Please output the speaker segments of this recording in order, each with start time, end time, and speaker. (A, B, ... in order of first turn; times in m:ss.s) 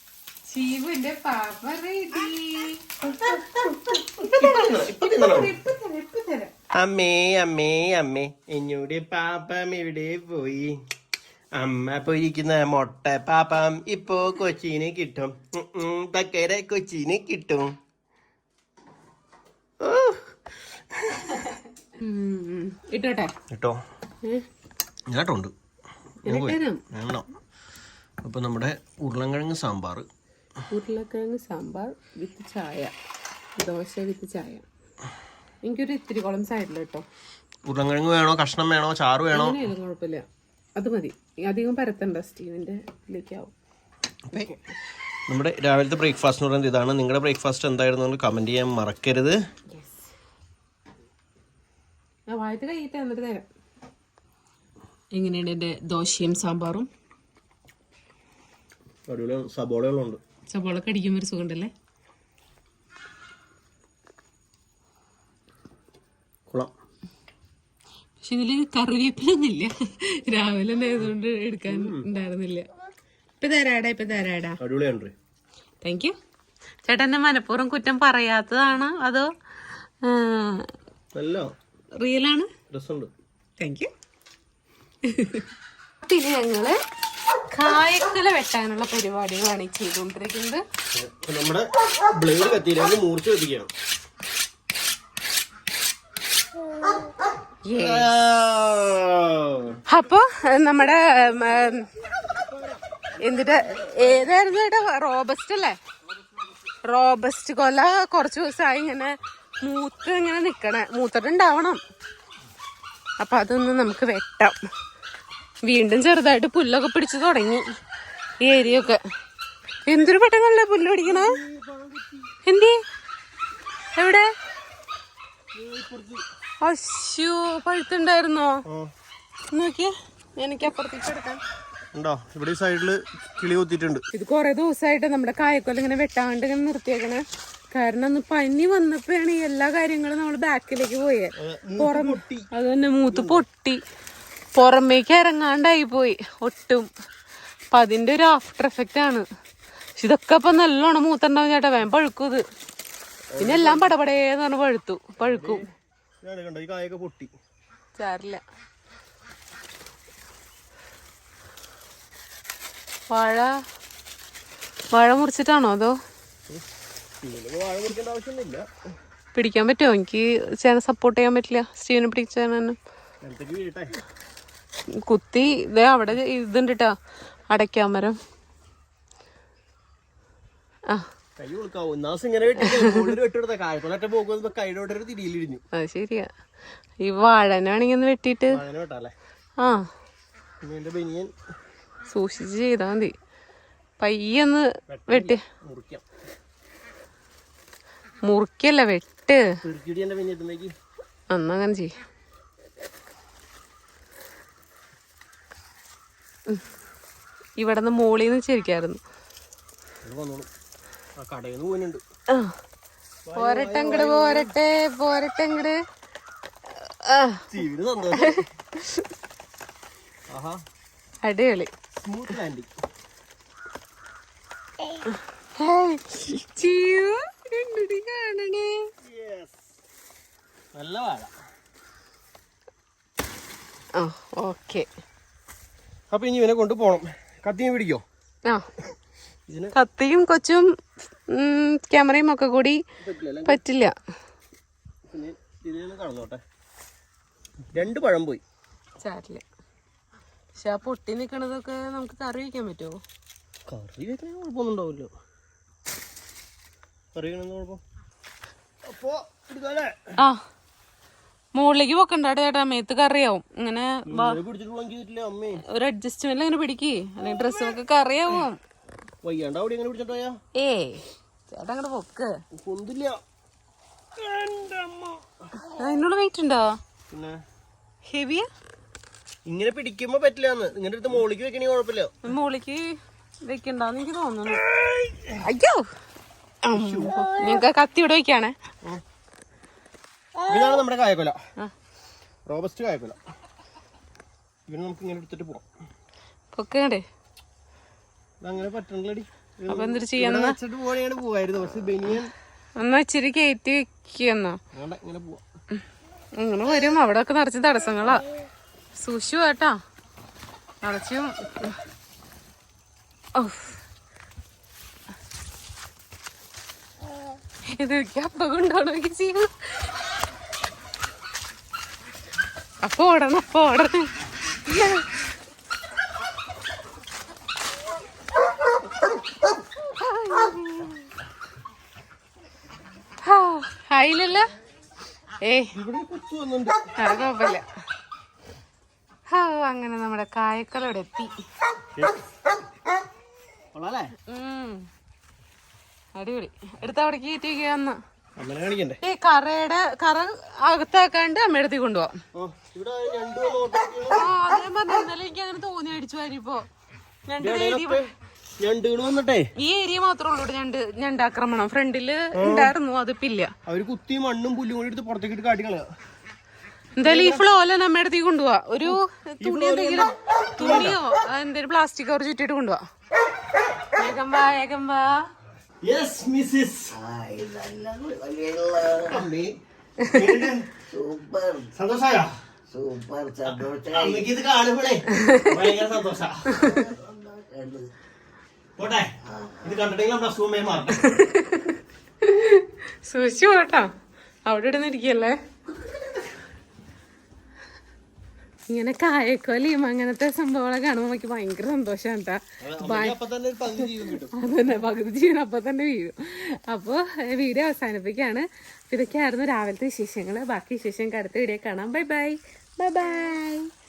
0:00.5-0:06.5 A
0:04.2-0:05.5 B
0:06.7-0:10.7 B
0:11.5-0:17.7 B
0:19.8-0:20.4 B
0:20.9-0:21.3 B
0:22.0-0:23.3 A
0:23.5-0:23.8 B
0:25.1-0:25.5 B
0:26.2-0:27.2 B
0:26.2-0:26.8 A
0:28.2-0:30.0 B
0:30.7-0:32.9 A
0:33.6-0:34.6 A
0:35.6-0:37.0 A
0:37.7-0:39.7 B
0:39.3-0:43.5 A
0:45.3-0:49.4 B
0:49.7-0:50.0 A
0:52.3-0:53.4 A
0:55.1-0:56.9 A
0:59.1-1:00.2 B
1:00.5-1:01.7 A
1:08.2-1:12.7 A
1:11.7-1:12.0 B
1:13.4-1:14.6 A
1:14.6-1:15.1 B
1:15.8-1:16.1 A
1:16.8-1:19.3 A
1:20.0-1:20.6 A
1:21.1-1:21.4 B
1:22.0-1:22.5 A
1:22.7-1:23.1 B
1:23.6-1:23.9 A
1:25.0-1:25.5 A
1:26.0-1:26.8 A
1:27.5-1:30.6 A
1:30.9-1:33.7 B
1:37.6-1:38.1 A
1:37.7-1:39.8 B
1:39.9-1:41.9 A
1:43.2-1:45.8 A
1:46.8-1:51.8 A
1:53.2-1:54.5 A
1:55.6-1:57.6 A
1:58.4-1:59.0 A
1:59.8-2:01.4 A
2:01.0-2:02.3 B
2:02.4-2:02.8 A
2:04.0-2:04.3 A
2:05.5-2:06.2 B
2:06.6-2:08.6 A
2:09.5-2:11.4 A
2:11.9-2:14.0 B
2:14.1-2:23.8 A
2:21.4-2:22.5 B
2:23.0-2:23.4 B
2:24.6-2:26.9 A
2:27.7-2:29.2 A
2:30.0-2:32.4 A
2:33.3-2:33.9 B
2:33.4-2:35.6 A
2:35.2-2:35.6 B
2:36.2-2:37.3 B
2:38.0-2:38.4 A
2:43.1-2:43.5 A
2:44.9-2:45.9 A
2:47.2-2:48.6 B
2:49.3-2:52.8 A
2:53.2-2:53.9 B
2:55.0-2:56.9 A
2:57.5-2:58.2 A
3:01.4-3:05.6 B
3:02.6-3:03.1 A
3:05.7-3:06.3 A
3:07.0-3:08.6 A
3:08.5-3:09.1 B
3:10.6-3:11.3 B
3:12.1-3:13.1 A
3:14.0-3:15.4 A
3:14.9-3:16.0 B
3:18.2-3:19.5 A
3:19.6-3:20.7 B
3:21.3-3:21.9 A
3:27.6-3:29.0 A
3:30.0-3:30.5 B
3:31.2-3:32.0 B
3:32.3-3:32.5 A
3:33.2-3:34.5 B
3:33.3-3:35.8 A
3:36.9-3:37.6 A
3:37.5-3:38.4 B
3:38.1-3:39.0 A
3:40.3-3:40.6 B
3:41.2-3:41.7 A
3:42.0-3:42.7 B
3:45.6-3:48.8 A
3:49.0-3:49.6 B
3:50.7-3:51.3 B
3:54.0-3:54.8 A
3:56.1-3:58.0 B
3:59.5-3:59.7 B
3:59.7-4:00.7 A
4:01.3-4:02.8 A
4:03.0-4:03.6 B
4:03.4-4:03.9 A
4:05.1-4:06.4 B
4:07.7-4:08.4 B
4:09.0-4:09.4 A
4:10.6-4:13.0 A
4:13.7-4:15.1 B
4:17.1-4:17.8 B
4:18.8-4:20.0 B
4:21.5-4:24.4 A
4:24.1-4:25.6 B
4:25.7-4:28.6 A
4:27.2-4:27.8 B
4:29.2-4:30.3 B
4:30.6-4:32.4 A
4:32.6-4:33.2 B
4:34.2-4:35.2 B
4:35.6-4:36.8 A
4:37.1-4:37.4 B
4:38.1-4:38.5 A
4:39.4-4:42.1 B
4:42.2-4:42.9 A
4:43.4-4:44.6 A
4:44.7-4:45.4 B
4:45.4-4:45.8 A
4:46.6-4:48.5 A
4:46.7-4:47.4 B
4:50.4-4:51.4 B
4:52.5-4:53.2 B
4:54.7-4:55.6 B
4:56.5-4:57.0 A
4:58.4-5:02.3 B
4:59.7-5:00.6 A
5:02.8-5:04.6 A
5:04.7-5:05.4 B
5:06.4-5:08.2 A
5:09.0-5:09.8 A
5:10.8-5:11.8 A
5:13.4-5:13.8 A
5:17.8-5:19.5 A
5:22.8-5:24.1 A
5:24.7-5:25.1 A
5:30.0-5:31.0 A
5:33.2-5:34.4 A
5:35.4-5:35.7 A
5:35.7-5:36.8 B
5:37.0-5:37.7 A
5:39.3-5:41.3 A
5:43.7-5:44.1 B
5:44.3-5:44.8 A
5:46.2-5:48.0 A
5:48.4-5:49.0 B
5:49.0-5:52.1 A
5:52.3-5:54.3 B
5:54.1-5:56.6 A
5:57.3-5:58.0 A
5:57.4-5:58.1 B
5:58.6-5:59.4 B
5:59.6-6:03.5 A
6:02.3-6:02.7 B
6:03.6-6:05.8 B
6:07.0-6:12.8 A
6:07.0-6:07.4 B
6:08.8-6:11.0 B
6:13.9-6:15.2 A
6:15.8-6:16.9 B
6:16.9-6:19.2 C
6:19.1-6:19.5 B
6:20.0-6:20.3 A
6:20.0-6:20.6 B
6:20.9-6:21.7 C
6:21.7-6:22.3 B
6:22.7-6:24.3 C
6:23.9-6:26.5 B
6:26.5-6:27.9 C
6:28.8-6:29.1 B
6:29.3-6:29.8 C
6:29.6-6:31.0 B
6:31.0-6:33.9 A
6:34.4-6:35.4 A
6:38.7-6:43.2 A
6:42.6-6:44.4 B
6:43.8-6:53.7 A